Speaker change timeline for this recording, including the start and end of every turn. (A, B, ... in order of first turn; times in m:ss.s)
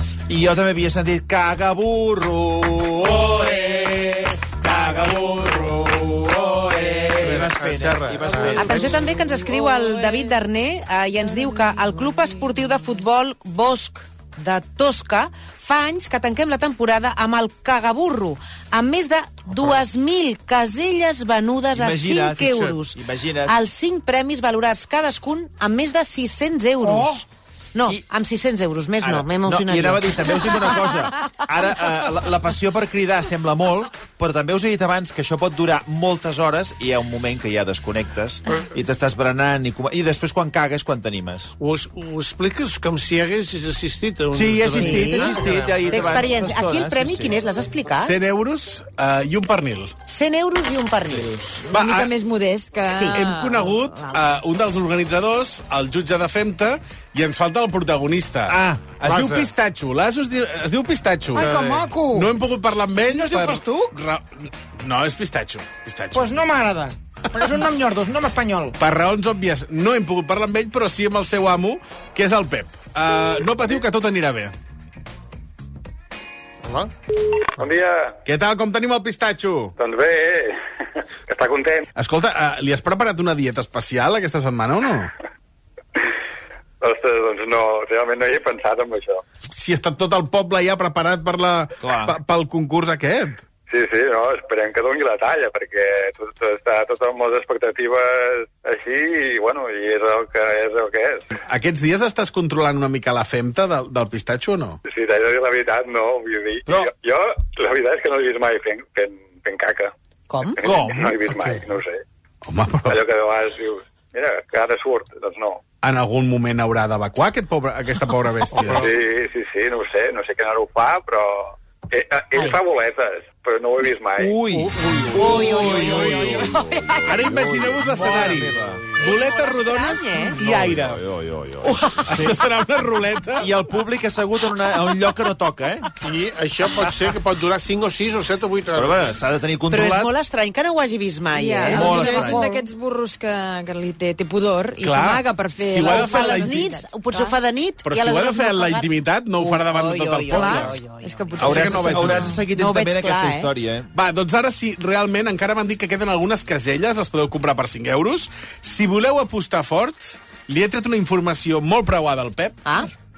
0:00.3-0:09.0 A
0:07.2-0:09.0 B
0:08.5-0:10.4 C
0:08.5-0:30.6 D
0:11.5-0:11.8 C
0:21.7-0:23.6 A
0:26.8-0:27.2 E
0:29.0-0:41.5 A
0:41.6-0:46.3 B
0:44.3-0:47.4 A
0:44.7-0:48.1 D
0:47.9-0:49.9 F
0:50.1-0:51.3 D
0:51.1-0:52.1 F
0:51.7-0:54.3 C
0:52.8-0:53.2 D
0:53.1-1:06.4 F
0:58.5-0:58.8 A
0:59.0-0:59.5 B
1:01.3-1:02.3 E
1:01.4-1:02.0 B
1:03.1-1:03.9 E
1:06.1-1:08.7 E
1:07.3-1:07.6 F
1:08.8-1:14.5 F
1:16.6-1:16.9 B
1:17.6-1:18.1 G
1:18.2-1:19.7 F
1:19.8-1:20.6 G
1:21.3-1:21.8 G
1:22.0-1:25.1 F
1:26.8-1:29.2 G
1:29.5-1:33.4 F
1:31.8-1:32.1 A
1:33.7-1:41.2 G
1:41.4-1:44.8 F
1:44.9-1:49.9 G
1:50.3-1:50.6 D
1:50.6-1:52.0 G
1:50.6-1:51.1 A
1:51.2-1:51.6 B
1:52.4-1:53.0 F
1:52.8-1:55.6 G
1:55.8-1:58.9 F
1:58.5-1:58.9 B
1:58.7-2:04.4 G
2:02.3-2:02.6 D
2:04.2-2:08.8 A
2:04.5-2:06.5 B
2:05.1-2:07.3 D
2:05.5-2:06.2 F
2:07.0-2:11.0 F
2:07.8-2:09.0 B
2:09.0-2:10.4 D
2:10.4-2:12.4 A
2:11.6-2:12.0 D
2:12.0-2:13.5 F
2:13.4-2:15.9 A
2:16.0-2:19.2 B
2:18.7-2:20.1 A
2:19.7-2:22.1 D
2:21.3-2:27.4 C
2:21.7-2:22.5 A
2:21.9-2:22.4 F
2:24.8-2:26.6 F
2:25.8-2:33.5 D
2:27.8-2:30.8 F
2:30.1-2:32.5 C
2:31.4-2:32.1 F
2:31.4-2:33.9 A
2:33.9-2:42.6 F
2:42.6-2:42.9 D